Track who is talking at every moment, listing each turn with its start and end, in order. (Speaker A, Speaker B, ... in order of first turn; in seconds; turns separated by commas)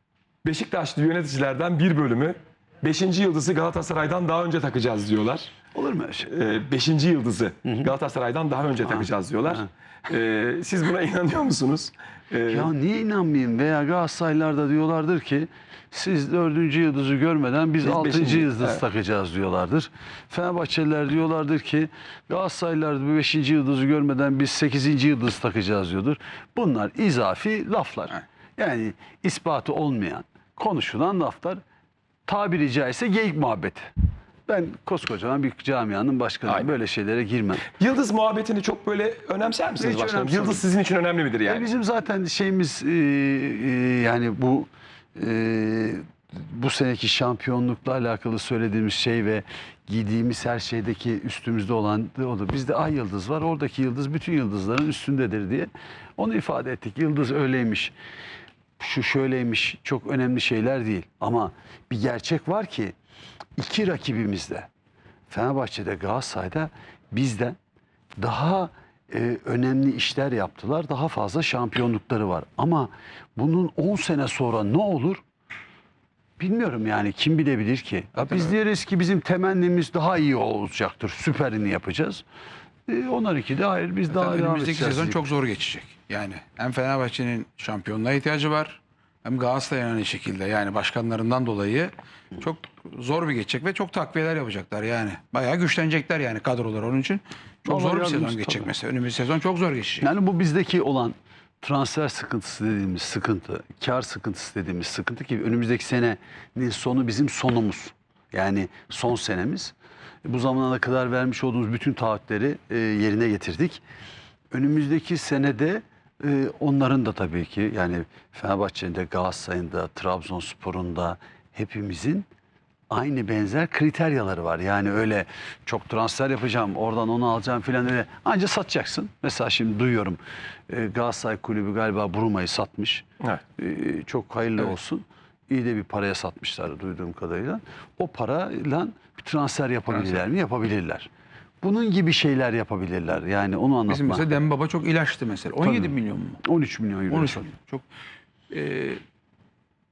Speaker A: 0.4-5.5, Speaker B: 5.8-6.3, Speaker A: 6.3-12.7, Speaker B: 7.7-7.9, Speaker B: 8.8-9.7, Speaker B: 12.5-31.6, Speaker A: 17.8-18.8, Speaker B: 32.3-33.9, Speaker B: 34.5-37.7, Speaker A: 37.7-41.7, Speaker B: 39.8-40.6, Speaker B: 41.5-57.9, Speaker B: 58.8-63.0, Speaker B: 63.6-64.7, Speaker B: 65.3-67.6, Speaker B: 68.2-75.2, Speaker B: 76.4-82.2, Speaker C: 78.2-78.5, Speaker B: 82.9-85.2, Speaker C: 84.1-100.1, Speaker B: 97.7-98.7, Speaker B: 100.0-109.7, Speaker B: 110.2-113.8, Speaker B: 114.5-122.3, Speaker B: 122.9-133.1, Speaker B: 133.6-141.1, Speaker C: 139.9-140.2, Speaker B: 141.6-144.3, Speaker C: 143.9-146.4, Speaker B: 145.6-147.5, Speaker C: 147.1-147.9, Speaker C: 148.5-149.0